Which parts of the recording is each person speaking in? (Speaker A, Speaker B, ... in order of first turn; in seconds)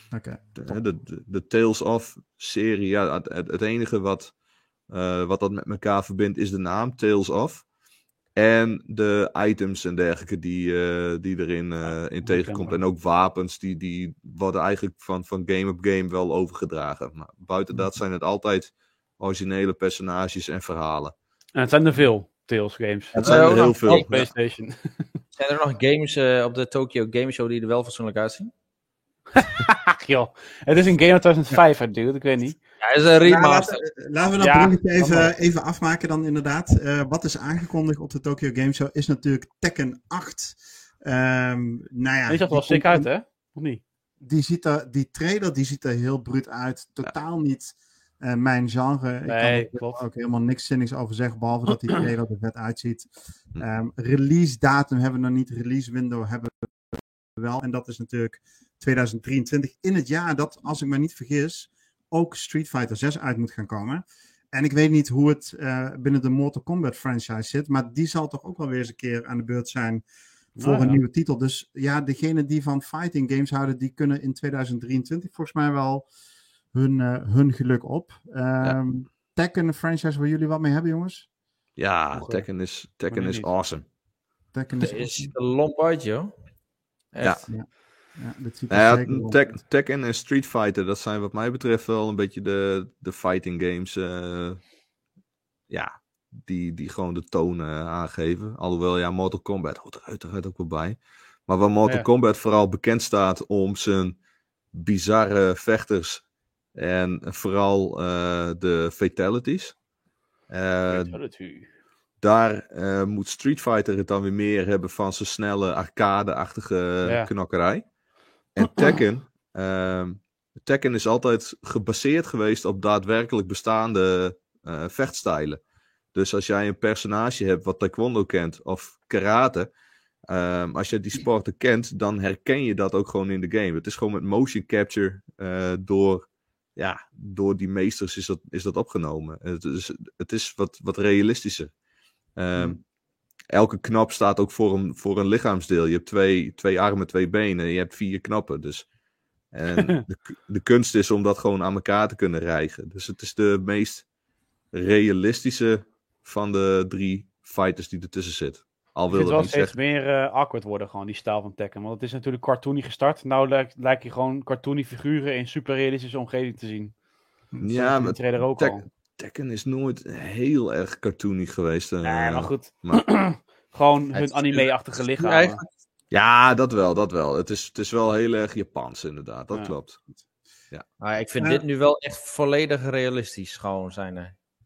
Speaker A: 0.1-0.8, 33.2-43.1, 44.2-70.0, 70.6-76.1, 76.7-81.3, 84.5-85.3, 87.5-89.5
Speaker B: 0.6-4.3, 4.9-7.7, 8.3-21.1, 23.1-24.3, 81.8-83.8, 88.7-94.6, 95.7-104.2, 104.7-106.2, 106.7-109.8, 110.5-111.2, 112.2-117.8, 118.5-125.6, 126.1-129.7, 130.3-141.7, 142.3-142.8, 143.5-148.8, 149.5-154.1, 154.7-159.7, 167.6-173.1, 176.1-180.0
Speaker C: 12.2-12.8, 21.5-25.0, 29.5-32.6, 34.4-35.3, 42.3-43.8, 49.2-50.0, 70.6-71.0, 83.1-83.5, 110.9-111.7, 117.0-117.3, 118.7-118.9, 159.1-166.9, 167.7-168.8, 172.0-175.6
Speaker D: 23.2-24.2, 25.4-28.5, 32.8-33.8, 84.8-86.3, 87.1-87.5, 174.1-175.7, 181.0-184.3